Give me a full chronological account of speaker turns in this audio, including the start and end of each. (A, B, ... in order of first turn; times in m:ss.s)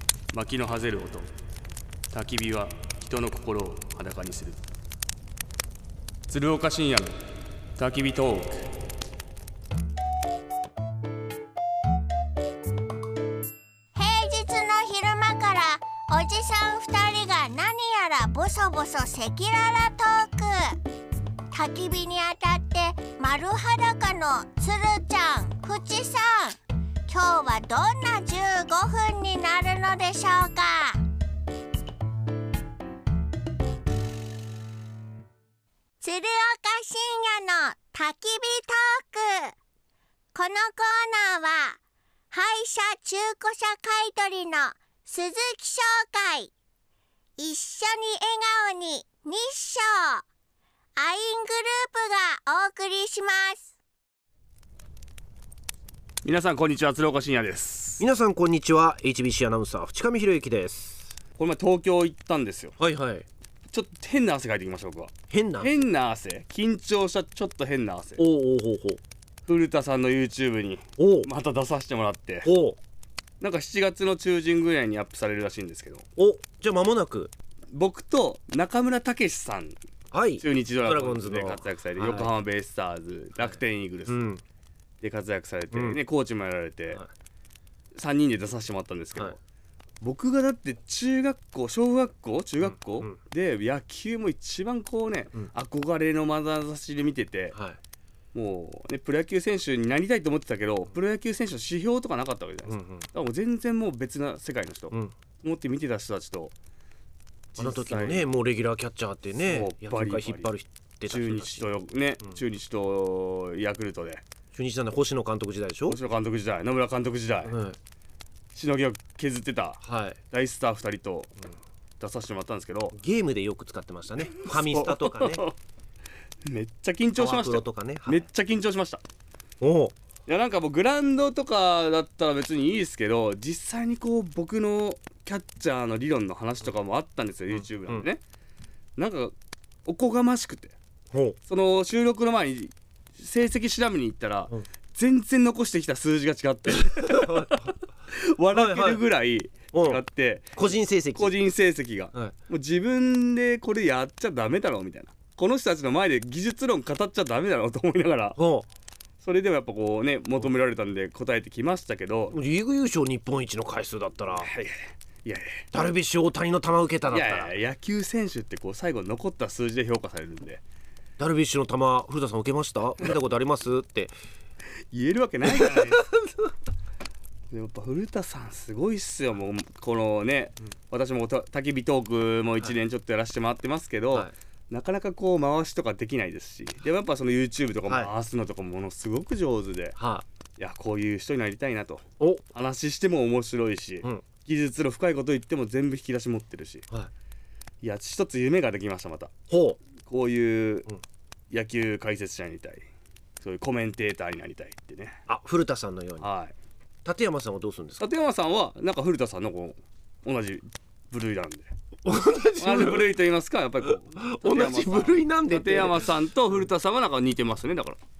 0:00.3-0:01.3 A
0:02.1-0:04.6 A
0:06.3-0:07.2 A
0:07.8-0:08.7 A
0:13.9-0:20.8 B
0:21.5-0:31.0 B
0:36.0-0:39.5 B
0:40.3-0:41.8 B
0:42.3-0:46.5 B
0:47.4-0:50.2 B
0:51.0-0:53.7 B
0:56.2-0:58.0 A
0:58.0-1:01.1 C
1:01.4-1:02.7 A
1:02.8-1:03.2 C
1:03.7-1:08.2 A
1:05.3-1:05.8 C
1:08.2-1:09.0 C
1:09.4-1:12.5 A
1:11.0-1:11.3 C
1:12.4-1:12.8 C
1:13.4-1:16.0 A
1:16.2-1:17.3 C
1:17.7-1:19.8 A
1:20.1-1:22.3 C
1:20.4-1:24.2 A
1:23.4-1:24.4 C
1:25.0-1:27.0 A
1:25.7-1:26.0 C
1:27.9-1:29.4 A
1:30.0-1:37.5 A
1:32.6-1:33.2 C
1:37.5-1:37.8 C
1:38.3-1:46.5 A
1:42.7-1:43.1 C
1:47.5-1:48.3 A
1:47.6-1:51.7 C
1:49.4-1:50.5 A
1:51.1-1:54.2 A
1:54.5-1:56.0 C
1:55.9-1:57.5 A
1:57.4-1:57.8 C
1:58.5-2:01.4 A
1:59.8-2:00.2 C
2:02.0-2:02.9 A
2:03.0-2:05.4 C
2:04.4-2:05.5 A
2:06.4-2:09.0 A
2:07.2-2:08.3 C
2:09.6-2:09.9 C
2:10.3-2:18.2 A
2:17.5-2:18.0 C
2:19.0-2:19.3 A
2:19.8-2:20.7 A
2:21.1-2:21.4 C
2:21.4-2:30.6 A
2:26.9-2:27.7 C
2:28.5-2:29.0 C
2:29.7-2:30.0 C
2:30.6-2:31.3 C
2:31.2-2:38.4 A
2:38.4-2:38.6 C
2:39.2-2:42.4 A
2:42.3-2:44.5 C
2:44.4-2:45.6 A
2:45.7-2:47.5 C
2:47.1-2:50.6 A
2:51.2-2:54.1 C
2:54.9-2:56.1 A
2:55.5-2:56.2 C
2:57.5-3:10.0 A
3:07.9-3:08.1 C
3:10.0-3:10.2 C
3:10.6-3:16.8 A
3:17.8-3:19.3 A
3:19.5-3:19.8 C
3:20.0-3:20.9 A
3:21.5-3:22.8 A
3:23.4-3:25.2 A
3:25.3-3:26.3 C
3:26.2-3:26.5 A
3:27.0-3:28.0 C
3:28.0-3:31.7 A
3:32.0-3:33.1 C
3:32.6-3:38.0 A
3:33.9-3:36.1 C